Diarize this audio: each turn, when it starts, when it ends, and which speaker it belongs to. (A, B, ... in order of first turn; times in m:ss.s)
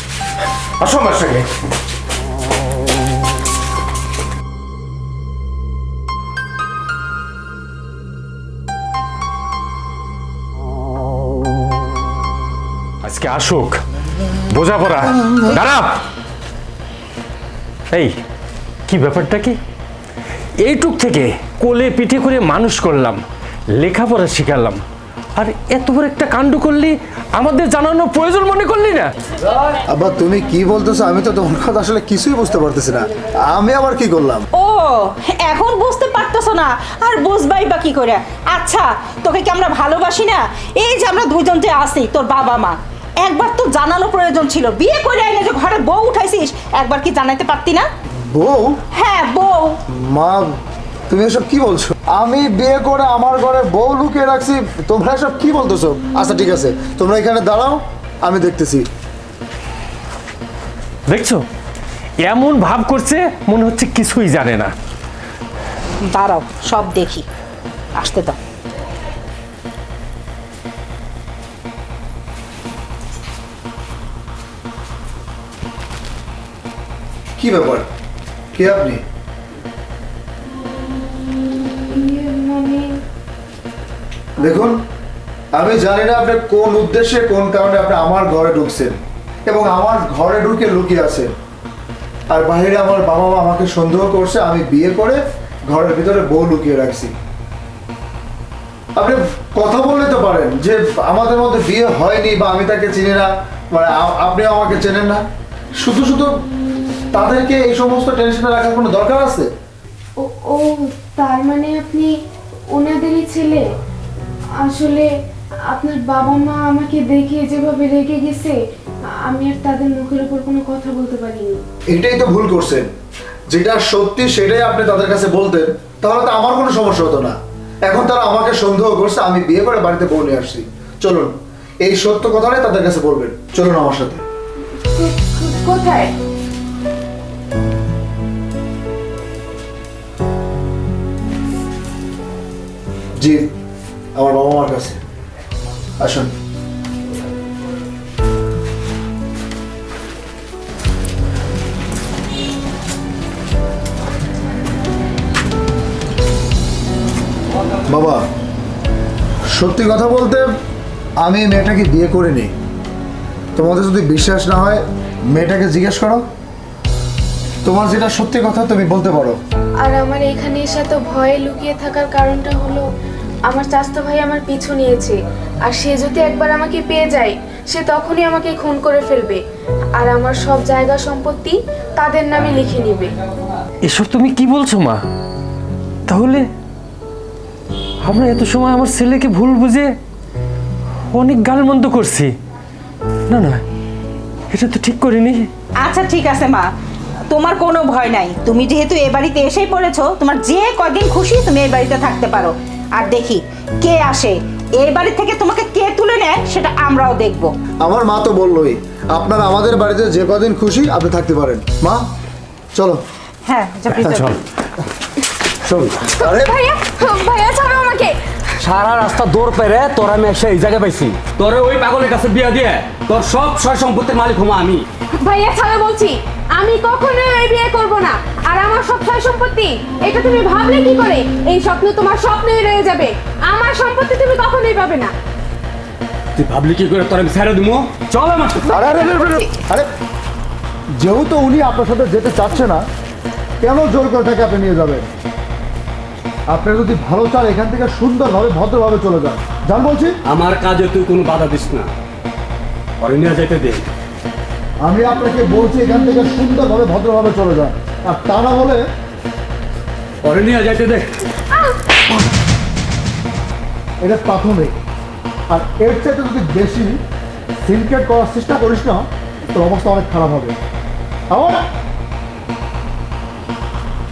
0:00.8-0:01.5 A
0:13.0-0:13.8 A
0:14.5-0:16.0 A
0:18.9-0:19.6 A
0:20.6-0:23.2 A
0:23.8-0:24.8 A
0:25.4-0:29.1 A
0:29.9-0:34.4 B
0:34.6-0:47.9 C
0:48.3-0:48.8 B
0:48.9-0:49.8 C
0:49.9-0:50.6 B
0:51.1-0:58.9 B
1:01.1-1:01.4 A
1:02.2-1:04.7 A
1:06.0-1:07.3 C
1:08.0-1:08.4 C
1:17.4-1:17.9 B
1:18.5-1:19.0 B
1:21.9-1:23.0 D
1:24.4-1:24.8 B
1:25.5-1:31.3 B
1:32.3-1:37.1 B
1:39.0-1:45.2 B
1:45.8-1:46.3 B
1:47.1-1:49.5 B
1:50.2-1:52.1 D
1:52.7-1:53.7 D
1:54.6-1:55.1 D
1:55.7-1:58.6 D
1:59.2-2:01.6 D
2:01.9-2:02.9 B
2:03.5-2:14.2 B
2:14.9-2:16.1 D
2:23.2-2:23.5 B
2:24.2-2:25.0 B
2:26.0-2:26.3 B
2:37.9-2:38.3 B
2:39.5-2:40.5 B
2:41.2-2:42.5 B
2:43.6-2:46.3 B
2:47.6-2:49.4 B
2:49.8-2:52.8 D
2:53.5-2:59.4 D
3:00.0-3:03.1 D
3:03.9-3:05.0 A
3:06.1-3:06.5 A
3:08.0-3:09.9 A
3:11.1-3:12.3 A
3:13.3-3:13.6 A
3:14.5-3:15.5 A
3:15.8-3:16.7 C
3:17.3-3:27.5 C
3:27.8-3:32.1 B
3:32.7-3:33.0 B
3:33.5-3:34.4 C
3:34.0-3:34.4 A
3:35.7-3:36.6 B
3:36.2-3:38.2 D
3:38.6-3:44.9 E
3:45.2-3:55.1 D
3:56.4-3:58.7 E
3:58.6-3:59.5 D
3:58.7-3:59.9 B
4:01.0-4:02.9 B
4:03.6-4:05.1 B
4:06.5-4:10.1 B
4:10.3-4:11.9 E
4:13.0-4:13.9 E
4:14.8-4:18.9 B
4:20.2-4:21.1 E
4:24.0-4:24.8 B
4:25.5-4:27.0 B
4:27.6-4:30.6 B
4:31.3-4:31.7 B